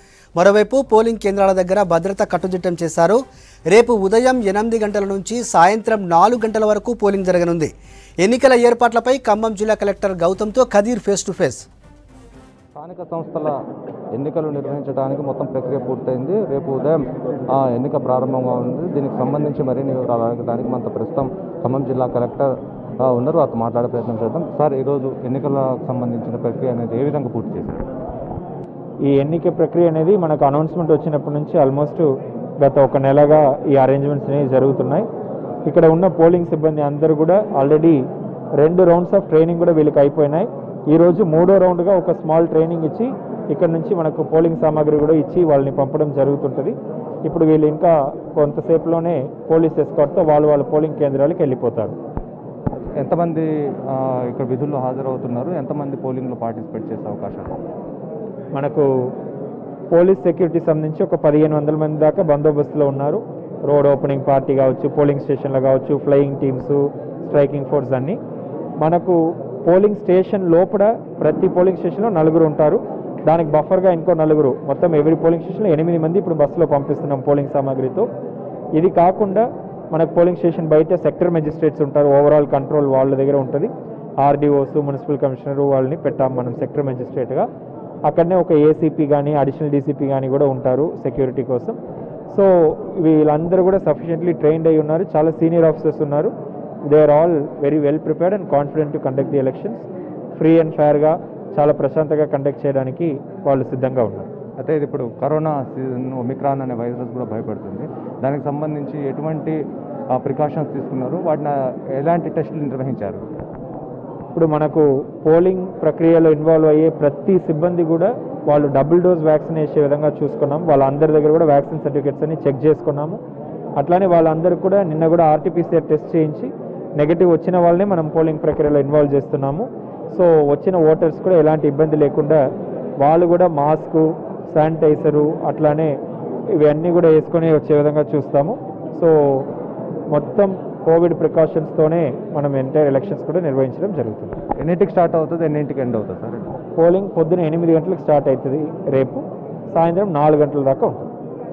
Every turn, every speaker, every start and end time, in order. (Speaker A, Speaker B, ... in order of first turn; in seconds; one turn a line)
Speaker A: 0.3-3.2
Speaker A: 3.7-11.7
Speaker B: 12.8-13.5
Speaker B: 14.1-22.5
Speaker B: 23.0-27.8
Speaker C: 29.0-32.1
Speaker C: 32.6-35.0
Speaker C: 35.6-38.0
Speaker C: 38.6-51.9
Speaker B: 53.0-57.6
Speaker C: 58.5-58.9
Speaker C: 59.9-68.2
Speaker C: 68.8-78.1
Speaker C: 78.7-87.5
Speaker C: 88.0-91.8
Speaker C: 92.3-96.3
Speaker C: 96.8-99.8
Speaker C: 100.4-104.3
Speaker B: 104.6-109.6
Speaker B: 110.1-113.2
Speaker C: 114.3-123.2
Speaker C: 123.8-132.4
Speaker C: 133.0-135.9
Speaker C: 136.5-139.5
Speaker C: 140.1-144.4
Speaker B: 144.6-146.5
Speaker C: 146.8-151.1